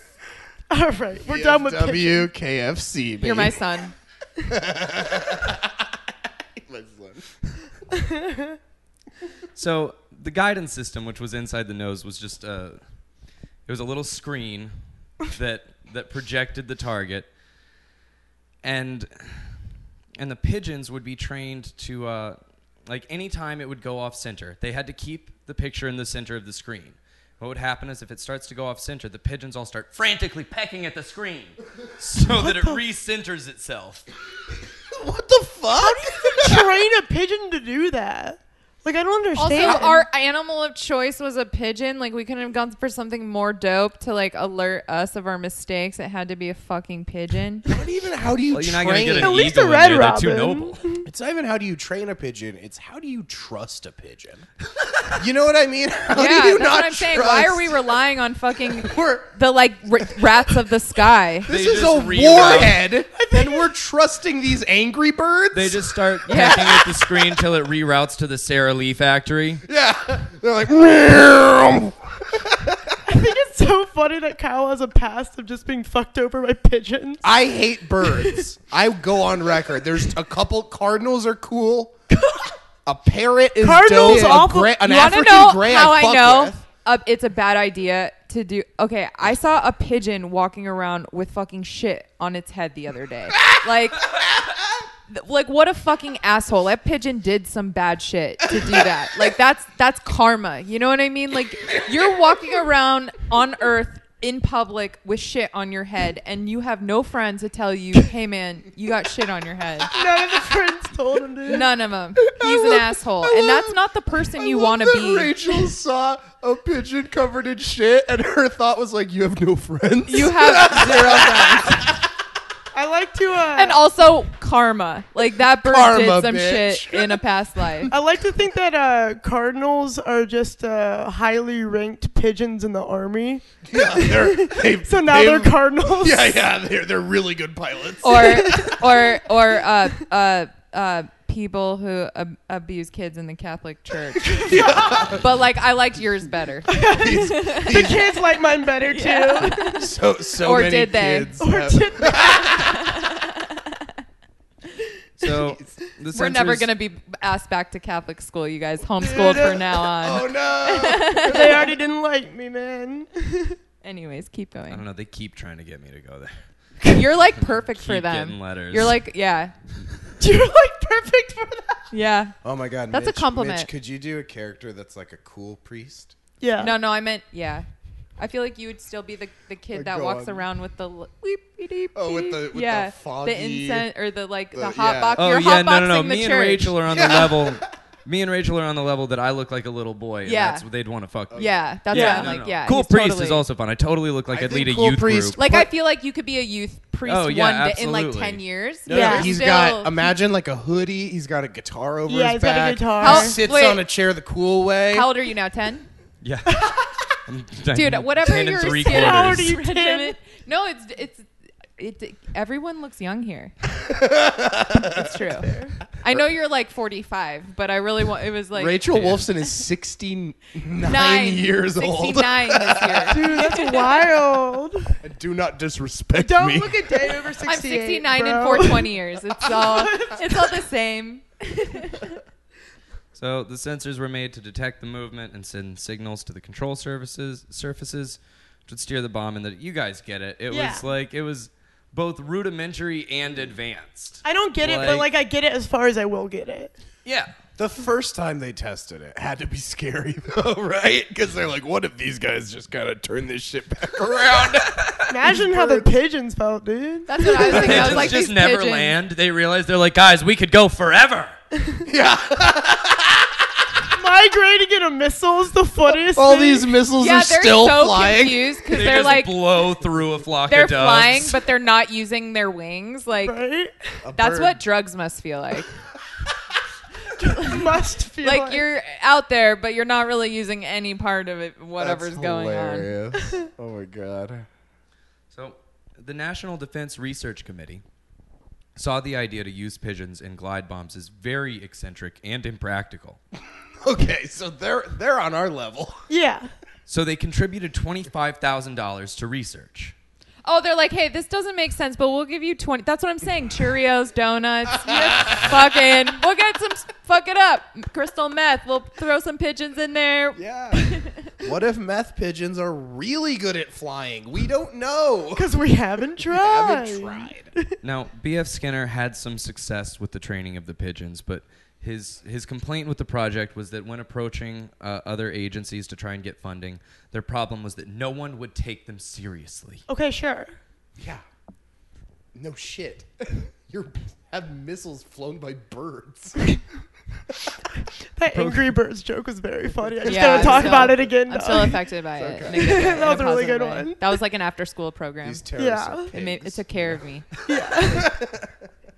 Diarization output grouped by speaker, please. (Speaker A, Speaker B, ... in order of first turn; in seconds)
Speaker A: 0.7-2.3, 7.9-8.6, 32.4-32.8, 35.8-40.0, 49.2-51.1, 63.1-63.7, 73.1-77.3, 82.1-82.5, 83.6-84.8, 109.9-111.7, 122.7-123.8, 127.9-136.4, 138.3-138.8, 144.3-145.1, 146.7-149.8, 151.4-152.8, 159.0-159.6, 161.3-163.6, 170.2-171.8, 176.4-176.8, 191.9-192.3, 198.9-199.3, 202.1-203.3, 208.6-210.2, 215.4-215.8, 223.1-224.9, 226.2-230.6, 240.5-240.8, 244.2-246.7, 255.1-257.9, 263.9-266.7, 273.2-273.9, 277.2-278.6, 296.1-296.5, 315.4-317.6, 329.9-330.5, 338.2-341.8, 342.5-344.1, 345.6-346.1, 347.5-348.1
Speaker B: 1.2-3.6, 4.5-6.0, 6.6-7.5, 34.9-36.7, 47.7-49.5, 51.0-54.5, 55.1-57.9, 58.7-59.3, 61.5-66.0, 69.7-73.0, 77.2-82.0, 82.8-86.6, 112.2-122.0, 125.6-127.2, 133.7-138.9, 144.3-145.3, 146.8-148.1, 149.7-153.0, 159.1-161.8, 172.4-176.2, 179.7-180.5, 181.9-183.9, 184.6-185.2, 186.9-187.7, 191.3-192.2, 194.3-195.7, 198.9-205.1, 213.8-215.1, 218.5-223.5, 225.0-227.1, 247.6-255.9, 257.4-258.2, 261.9-263.8, 266.1-268.4, 274.0-274.6, 281.8-284.5, 293.8-296.1, 304.8-305.6, 310.4-315.6, 316.2-317.5, 332.3-336.4, 340.0-341.0, 342.2-343.3, 345.2-347.1, 347.8-348.6
Speaker C: 3.2-3.9, 39.4-47.7, 56.1-61.5, 66.3-66.8, 83.9-94.0, 95.1-110.0, 111.5-115.4, 120.1-121.8, 123.5-127.9, 138.0-148.0, 148.8-151.4, 152.5-153.7, 156.1-161.7, 163.8-164.8, 166.9-169.5, 171.9-172.3, 172.9-173.7, 176.6-177.7, 178.2-186.7, 190.2-190.6, 191.3-193.4, 195.3-200.1, 203.0-203.8, 204.9-205.9, 207.7-213.5, 214.7-218.8, 220.8-223.8, 227.4-232.2, 257.1-258.9, 267.0-269.4, 270.5-273.4, 274.2-275.7, 277.3-277.7, 278.2-282.9, 300.4-311.3, 340.1-345.4, 346.1-347.3
Speaker D: 9.6-12.8, 13.7-17.3, 18.6-19.6, 20.2-34.1, 48.5-50.8, 61.5-62.8, 65.5-69.6, 155.2-156.7, 164.7-166.4, 167.4-169.0, 185.2-195.4, 197.1-198.4, 206.2-206.7, 207.3-209.6, 218.9-219.3, 233.2-245.1, 247.1-247.3, 254.4-255.0, 257.4-261.3, 268.7-271.4, 285.3-287.8, 288.8-293.2, 296.9-299.9, 317.8-329.9, 338.3-338.8